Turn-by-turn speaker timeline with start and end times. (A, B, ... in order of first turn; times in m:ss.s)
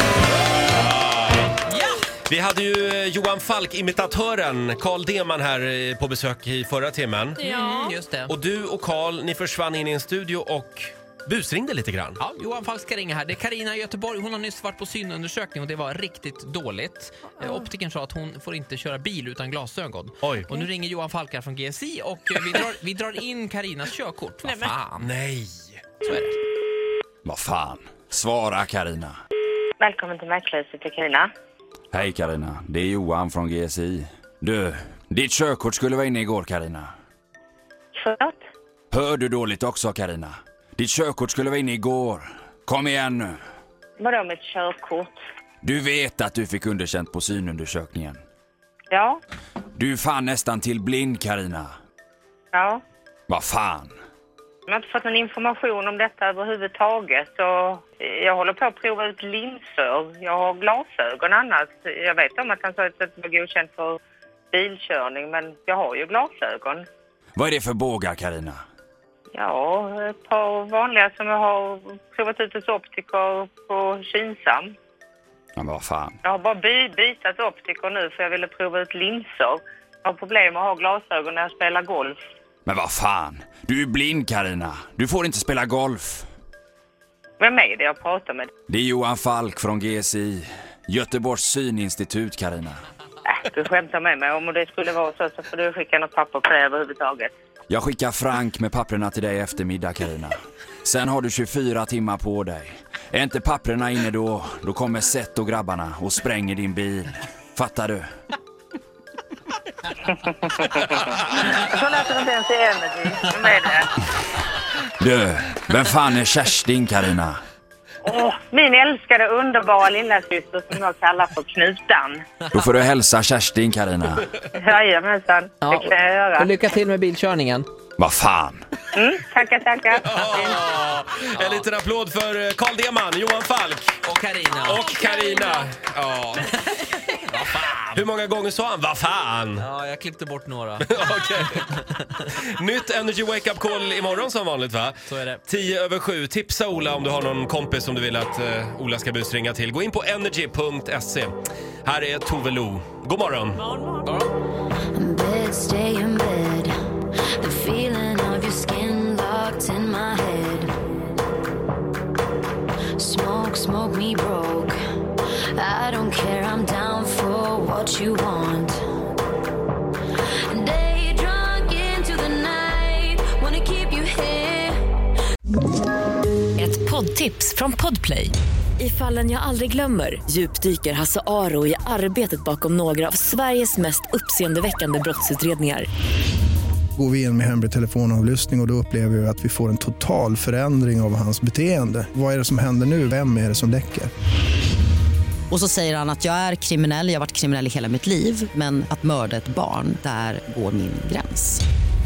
0:00.7-0:01.6 A
0:01.7-0:02.1 B
0:02.3-0:07.5 A
0:07.4-0:08.3 B
0:08.3-0:12.2 A
0:12.2-0:25.1 B
0:20.2-0:20.6 A
0:25.0-0:25.9 A
0:26.0-0:26.4 B
0:27.2-0:29.2 C
0:29.8-0:31.3 D
0:31.9-0:36.9 C
0:38.0-0:38.4 D
0:38.9-0:43.4 C
0:44.0-0:45.2 D
0:45.6-0:48.2 C
0:48.9-0:49.2 D
0:49.8-0:51.7 C
0:52.5-0:52.8 D
0:53.3-0:53.9 C
0:54.7-1:04.0 D
1:04.5-1:06.8 D
1:07.4-1:08.6 C
1:09.3-1:14.7 D
1:15.6-1:16.2 C
1:16.2-1:22.2 D
1:22.7-1:26.3 C
1:27.4-1:28.5 D
1:28.7-1:32.8 C
1:33.3-1:37.3 D
1:37.7-1:48.0 C
1:50.6-1:53.9 D
1:55.0-1:57.4 C
1:58.0-2:02.2 D
2:02.5-2:04.3 C
2:04.6-2:06.5 D
2:05.6-2:07.7 B
2:08.0-2:08.6 C
2:09.0-2:10.5 D
2:10.0-2:14.0 A
2:11.4-2:11.7 B
2:14.0-2:14.9 B
2:14.6-2:16.5 A
2:16.8-2:18.1 B
2:18.0-2:19.7 A
2:19.6-2:20.9 B
2:20.8-2:21.7 A
2:22.4-2:25.0 A
2:25.1-2:25.4 B
2:25.5-2:31.3 A
2:31.8-2:33.6 A
2:34.0-2:34.3 B
2:34.9-2:36.8 E
2:37.4-2:40.7 E
2:43.0-2:44.8 E
2:45.5-2:48.8 E
2:50.5-2:54.8 E
2:56.6-3:05.9 F
3:07.0-3:14.1 G
3:15.5-3:21.6 H